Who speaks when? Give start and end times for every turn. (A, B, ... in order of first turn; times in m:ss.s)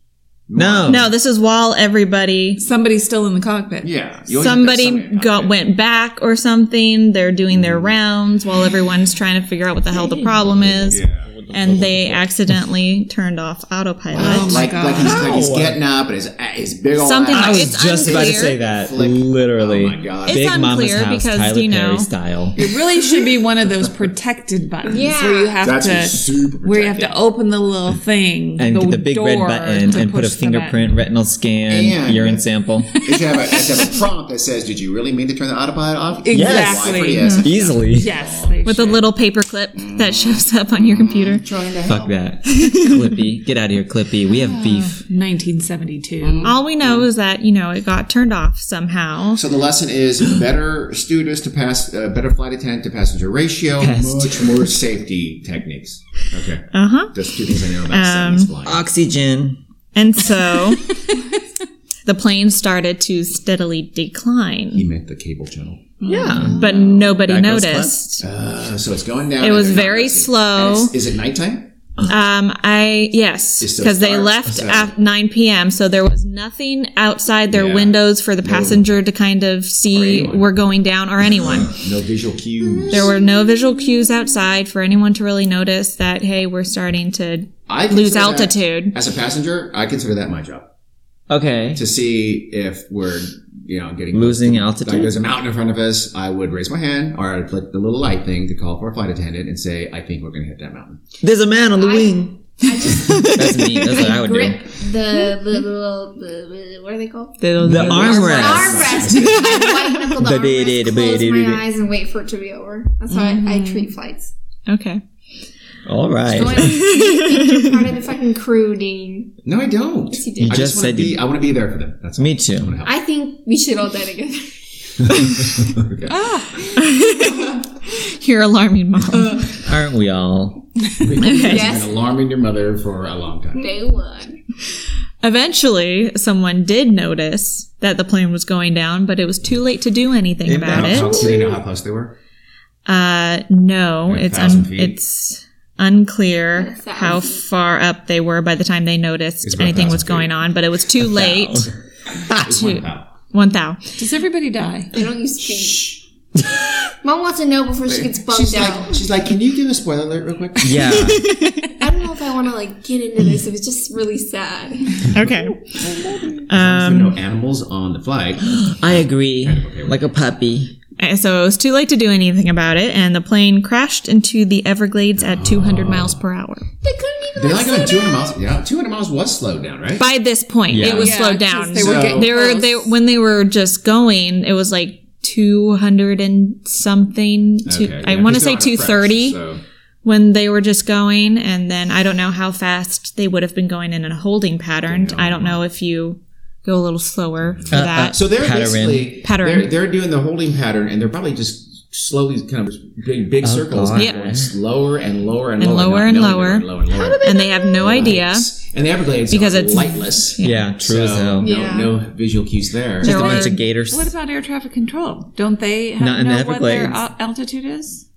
0:00.5-0:01.1 A
0:00.6-0:01.1 B
0:00.8-0:02.6 C
0:02.6-0:03.9 D
0:03.8-0:05.6 A
0:04.3-0:14.7 C
0:07.5-0:07.9 A
0:10.4-0:12.3 B
0:10.9-0:11.3 A
0:14.1-0:20.5 A
0:14.2-0:15.2 D
0:14.9-0:15.8 B
0:17.0-0:18.6 C
0:17.3-0:22.6 B
0:20.3-0:22.1 C
0:22.6-0:30.8 D
0:24.8-0:25.6 E
0:25.0-0:27.2 A
0:28.6-0:33.0 B
0:31.7-0:38.9 A
0:36.2-0:39.1 D
0:36.3-0:38.1 B
0:37.2-0:37.4 C
0:38.6-0:41.4 C
0:39.8-0:42.2 A
0:41.9-0:45.0 B
0:42.6-0:42.9 C
0:44.3-0:46.5 D
0:46.2-0:47.1 A
0:46.4-0:49.4 C
0:49.3-0:58.8 A
0:53.8-0:54.7 B
0:56.7-0:57.2 C
0:57.9-0:58.5 C
0:58.6-0:59.6 B
1:00.0-1:00.9 C
1:02.1-1:04.9 C
1:04.7-1:07.2 A
1:06.1-1:06.6 B
1:06.1-1:08.2 C
1:06.2-1:06.4 D
1:07.2-1:08.0 B
1:08.2-1:11.7 A
1:09.4-1:11.0 C
1:12.1-1:21.8 C
1:13.6-1:14.9 A
1:17.5-1:18.9 A
1:19.9-1:20.5 A
1:21.4-1:23.2 A
1:22.9-1:29.0 C
1:27.7-1:30.7 A
1:31.3-1:31.8 B
1:31.7-1:41.0 A
1:34.1-1:35.1 B
1:41.2-1:42.4 B
1:41.8-1:47.4 E
1:43.0-1:44.1 C
1:43.1-1:44.6 B
1:47.4-1:50.2 C
1:47.6-1:49.1 B
1:47.6-1:49.8 A
1:48.0-1:54.3 E
1:50.2-1:51.6 B
1:53.1-1:53.9 C
1:54.7-1:55.0 C
1:55.8-1:56.8 B
1:56.3-1:59.4 E
1:56.5-1:57.8 C
1:59.4-2:03.0 A
2:00.1-2:00.7 E
2:00.4-2:01.2 B
2:02.2-2:02.8 B
2:02.8-2:04.6 E
2:05.0-2:06.3 A
2:06.1-2:06.7 D
2:06.7-2:09.6 C
2:09.5-2:10.7 B
2:11.0-2:13.7 A
2:11.2-2:11.7 C
2:11.3-2:12.0 E
2:13.6-2:14.4 E
2:15.2-2:21.2 C
2:20.4-2:21.4 B
2:20.7-2:22.1 A
2:21.2-2:21.5 E
2:22.9-2:31.7 C
2:24.1-2:25.0 A
2:26.6-2:27.4 E
2:29.4-2:30.4 A
2:31.0-2:31.7 B
2:32.3-2:33.1 A
2:32.5-2:34.0 C
2:34.0-2:35.0 D
2:34.9-2:36.0 E
2:35.6-2:36.0 A
2:36.9-2:39.0 E
2:37.9-2:41.2 A
2:40.6-2:41.3 B
2:40.8-2:41.8 C
2:41.8-2:45.1 E
2:45.1-2:45.6 C
2:45.8-2:50.1 A
2:46.5-2:47.2 C
2:48.4-2:50.8 B
2:51.0-2:56.7 C
2:55.2-2:56.2 A
2:56.8-2:58.3 E
2:57.4-3:00.1 A
3:00.0-3:09.4 C
3:00.7-3:01.2 B
3:00.8-3:02.9 D
3:01.8-3:02.3 A
3:07.6-3:09.6 A
3:10.0-3:18.2 C
3:14.9-3:15.6 A
3:17.6-3:33.4 A
3:17.7-3:19.1 B
3:19.2-3:19.7 C
3:23.4-3:24.5 B
3:24.0-3:24.2 C
3:25.6-3:28.5 C
3:29.3-3:30.7 C
3:30.4-3:31.5 B
3:31.4-3:32.0 E
3:33.0-3:34.1 B
3:33.0-3:33.6 C
3:33.0-3:38.0 D
3:36.0-3:37.0 B